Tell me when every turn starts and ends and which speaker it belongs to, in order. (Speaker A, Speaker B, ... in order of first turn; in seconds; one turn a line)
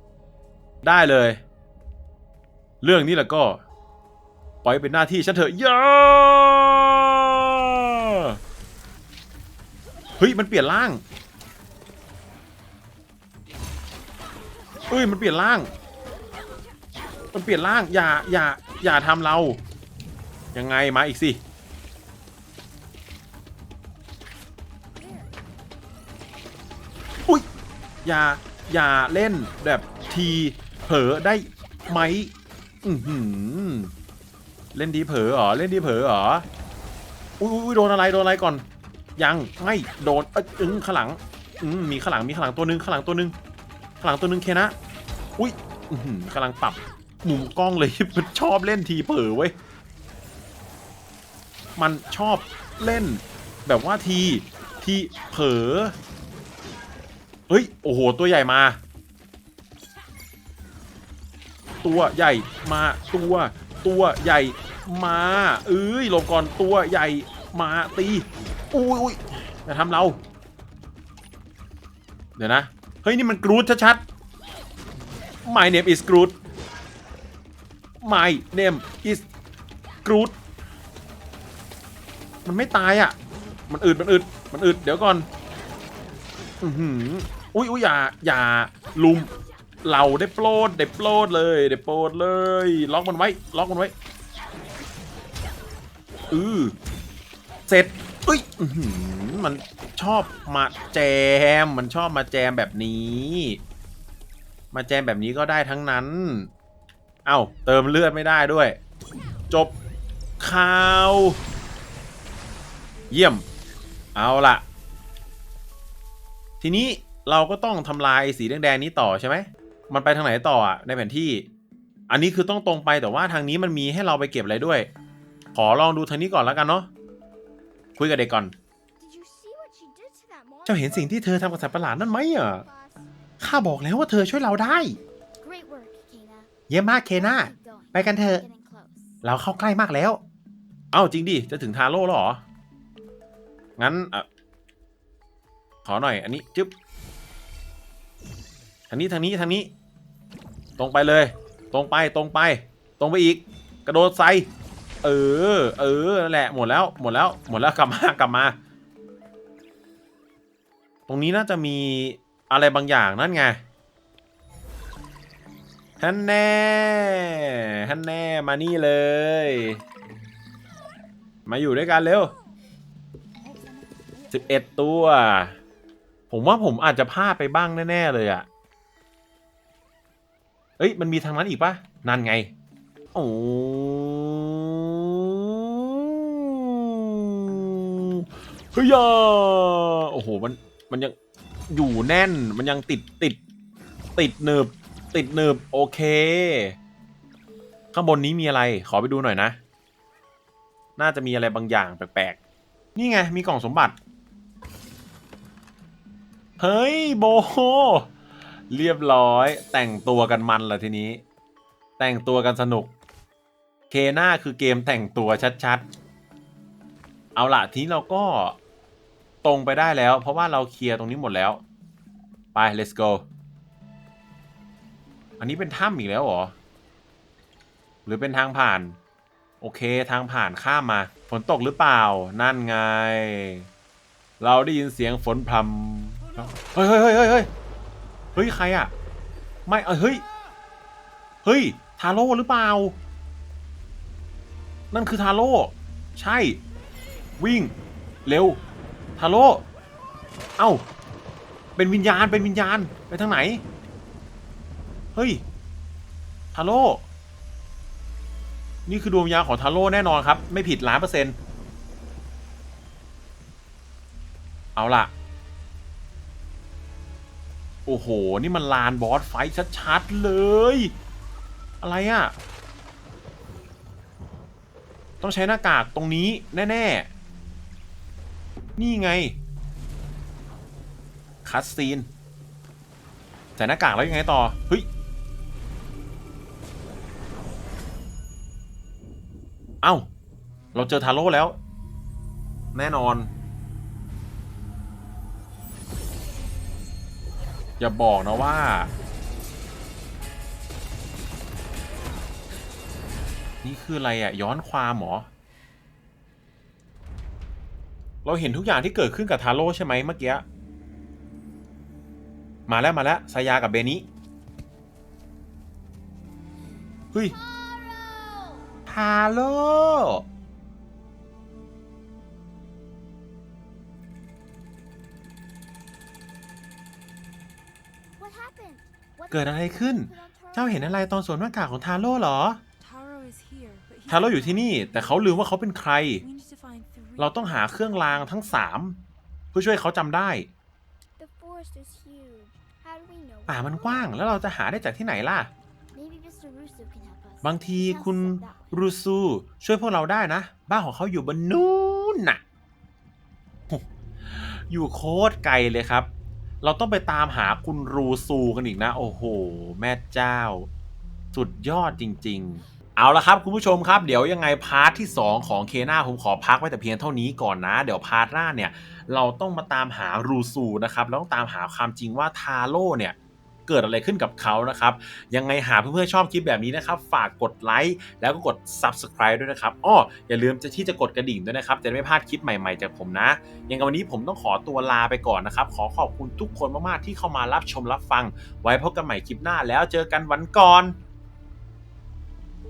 Speaker A: 0.8-1.4
Speaker A: 2.8-3.6
Speaker A: 4.6-8.4
Speaker A: 10.2-11.0
Speaker A: 14.9-15.7
Speaker A: 17.3-19.6
Speaker A: 20.5-21.4
Speaker B: 25.0-25.3
Speaker A: 28.0-32.3
Speaker A: 32.8-33.9
Speaker A: 34.7-36.5
Speaker A: 37.4-38.7
Speaker A: 39.2-43.4
Speaker A: 44.0-44.8
Speaker A: 45.4-49.5
Speaker A: 51.8-56.0
Speaker A: 57.5-58.8
Speaker A: 61.8-70.2
Speaker A: 72.4-74.0
Speaker A: 75.5-76.4
Speaker A: 78.0-79.3
Speaker A: 80.0-80.3
Speaker A: 82.5-83.2
Speaker A: 83.7-85.3
Speaker A: 86.6-89.3
Speaker A: 89.8-93.9
Speaker A: 96.3-96.8
Speaker A: 97.7-103.6
Speaker A: 104.7-106.5
Speaker A: 107.2-108.8
Speaker A: 110.4-111.4
Speaker A: 113.1-113.5
Speaker A: 114.2-114.6
Speaker A: 116.6-121.5
Speaker A: 122.1-124.9
Speaker A: 125.5-126.9
Speaker A: 128.0-128.5
Speaker B: 129.0-133.1
Speaker A: 130.7-132.6
Speaker A: 133.4-135.0
Speaker B: 135.4-136.5
Speaker A: 136.7-138.4
Speaker B: 137.1-139.2
Speaker A: 139.2-140.2
Speaker A: 140.9-142.4
Speaker A: 143.8-144.2
Speaker A: 145.8-146.7
Speaker A: 148.9-149.7
Speaker A: 150.8-154.5
Speaker A: 155.0-158.6
Speaker A: 161.1-163.6
Speaker A: 166.0-169.8
Speaker A: 171.5-172.3
Speaker C: 173.4-174.6
Speaker A: 174.3-175.6
Speaker A: 176.3-178.5
Speaker A: 180.8-182.5
Speaker A: 183.1-191.2
Speaker A: 191.7-193.4
Speaker A: 194.2-196.8
Speaker A: 197.9-199.6
Speaker A: 201.0-202.4
Speaker A: 202.9-204.0
Speaker A: 206.6-208.1
Speaker A: 208.7-211.2
Speaker A: 212.0-212.9
Speaker A: 213.9-215.9
Speaker A: 217.4-218.6
Speaker A: 219.4-221.6
Speaker A: 222.5-223.3
Speaker A: 225.4-226.6
Speaker A: 228.1-229.0
Speaker A: 229.6-233.7
Speaker A: 234.4-237.5
Speaker A: 238.3-238.9
Speaker A: 239.7-240.2
Speaker A: 241.4-243.0
Speaker A: 244.9-246.6
Speaker A: 247.4-247.7
Speaker A: 248.3-248.6
Speaker A: 249.2-249.7
Speaker A: 250.6-250.8
Speaker A: 251.8-253.6
Speaker A: 255.2-255.4
Speaker A: 256.5-257.1
Speaker A: 258.9-261.4
Speaker A: 264.8-265.1
Speaker A: 267.9-270.9
Speaker A: 271.8-272.3
Speaker A: 275.2-277.1
Speaker A: 278.8-279.4
Speaker A: 281.4-282.1
Speaker A: 283.6-284.9
Speaker A: 289.8-290.1
Speaker A: 290.7-291.6
Speaker A: 292.7-293.3
Speaker A: 297.8-298.9
Speaker A: 303.6-305.3
Speaker A: 308.2-310.4
Speaker A: 312.7-314.1
Speaker B: 317.2-318.7
Speaker A: 318.9-320.2
Speaker B: 328.2-331.1
Speaker A: 329.3-332.6
Speaker C: 332.8-335.5
Speaker A: 334.1-336.2
Speaker C: 336.2-338.5
Speaker A: 337.2-339.0
Speaker A: 339.5-340.5
Speaker B: 341.2-344.3
Speaker A: 343.5-345.5
Speaker B: 345.9-348.7
Speaker A: 347.4-352.4
Speaker A: 353.7-356.1
Speaker A: 356.6-360.7
Speaker A: 361.3-373.2
Speaker A: 373.7-391.0